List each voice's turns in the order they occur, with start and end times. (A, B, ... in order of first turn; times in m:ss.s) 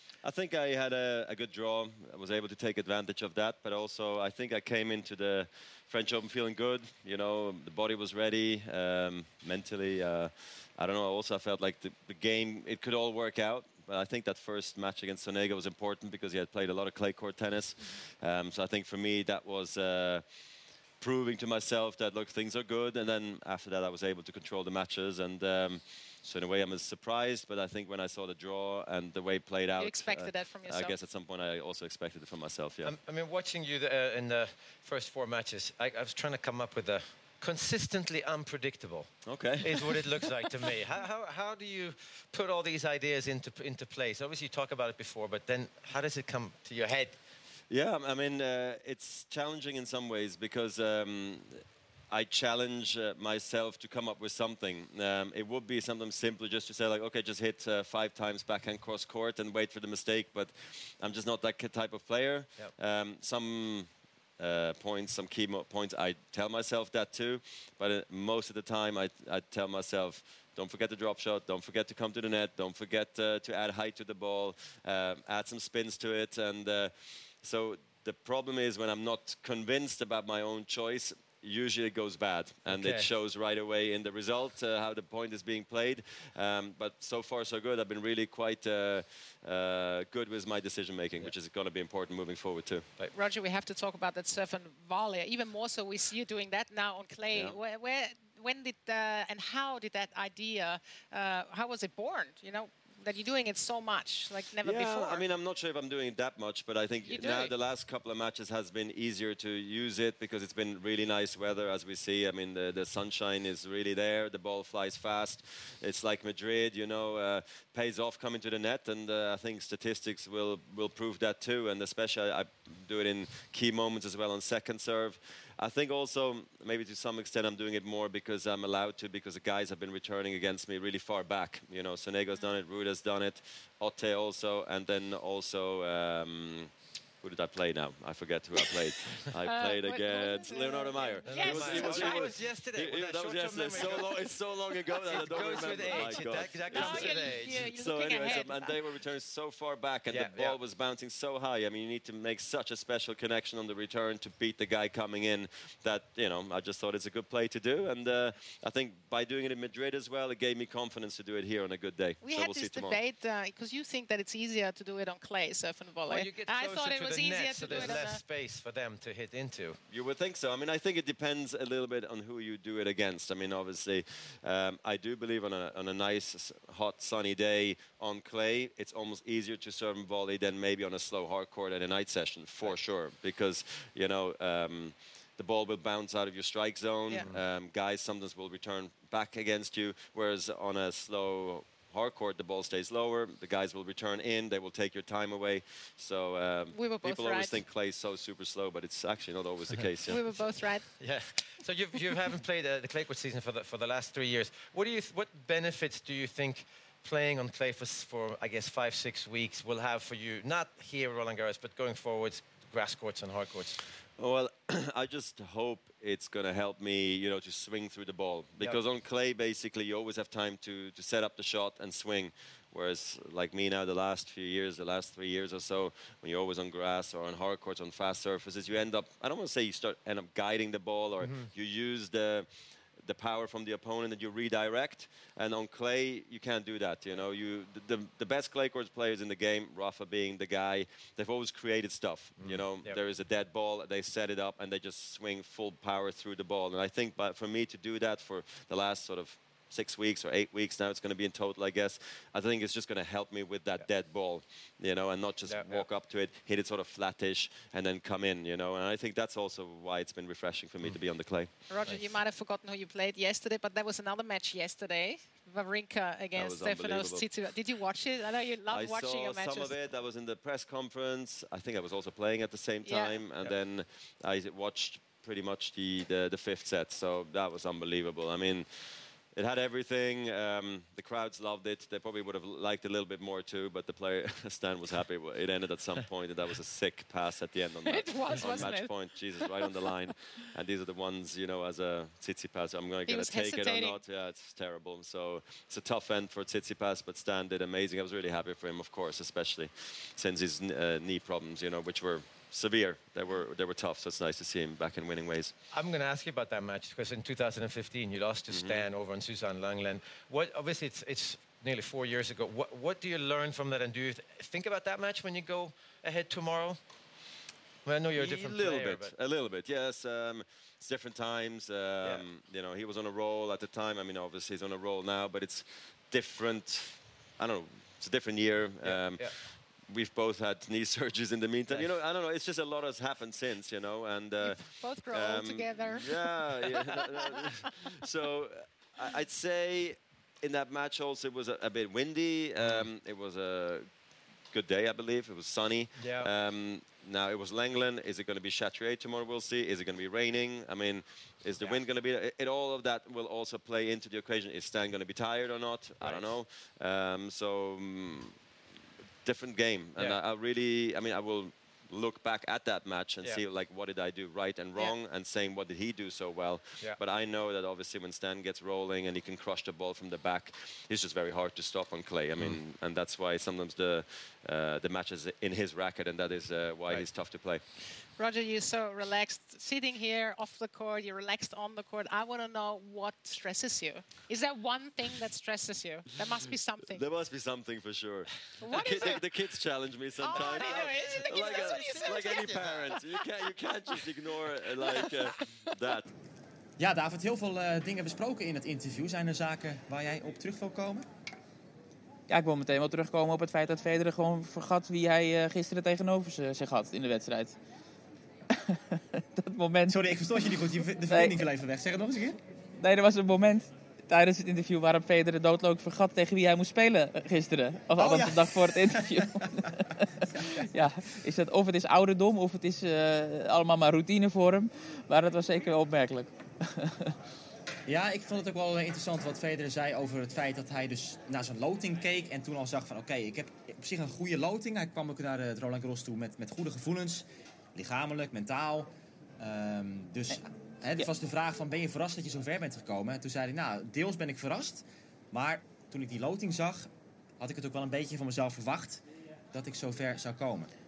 0:00.2-0:33.0 A
0:29.8-0:31.0 B
0:32.8-0:47.2 C
0:39.3-0:40.7 A
0:47.7-1:32.9 A
1:22.7-1:23.1 C
1:33.1-1:45.2 B
1:37.3-1:37.6 A
1:44.6-2:43.0 A
1:47.0-1:47.5 B
2:19.4-2:22.4 B
2:21.2-2:27.7 C
2:25.1-2:28.8 B
2:30.1-2:30.6 C
2:42.2-2:48.2 B
2:46.1-2:49.8 C
2:47.7-2:48.1 A
2:49.9-3:20.2 A
3:16.7-3:17.6 B
3:20.0-3:20.9 B
3:21.0-3:33.8 C
3:34.2-4:21.5 A
3:51.2-3:51.5 C
4:02.4-4:03.0 C
4:15.5-4:15.9 C
4:21.7-4:29.7 B
4:21.8-4:22.1 C
4:26.4-4:27.4 A
4:28.7-5:05.5 A
4:32.8-4:33.2 B
4:47.9-4:49.7 B
4:48.3-4:48.7 C
4:53.1-4:54.0 B
5:05.7-5:16.8 C
5:08.5-5:08.8 A
5:17.8-5:19.1 C
5:18.2-5:43.9 A
5:28.8-5:29.4 C
5:31.7-5:32.0 C
5:34.4-5:37.5 B
5:42.6-5:42.9 C
5:44.5-5:58.4 A
5:46.0-5:46.3 C
5:56.0-5:56.3 C
5:59.2-6:17.6 A
6:18.2-6:27.0 B
6:26.9-6:36.1 A
6:28.6-6:29.2 B
6:30.2-6:33.0 B
6:30.5-6:31.9 C
6:34.8-6:35.1 B
6:36.8-6:41.1 D
6:42.3-6:47.6 E
6:48.5-6:50.5 E
6:49.9-6:52.4 D
6:51.1-6:51.4 E
6:52.8-7:07.1 E
6:58.0-6:59.7 D
7:07.9-7:30.7 D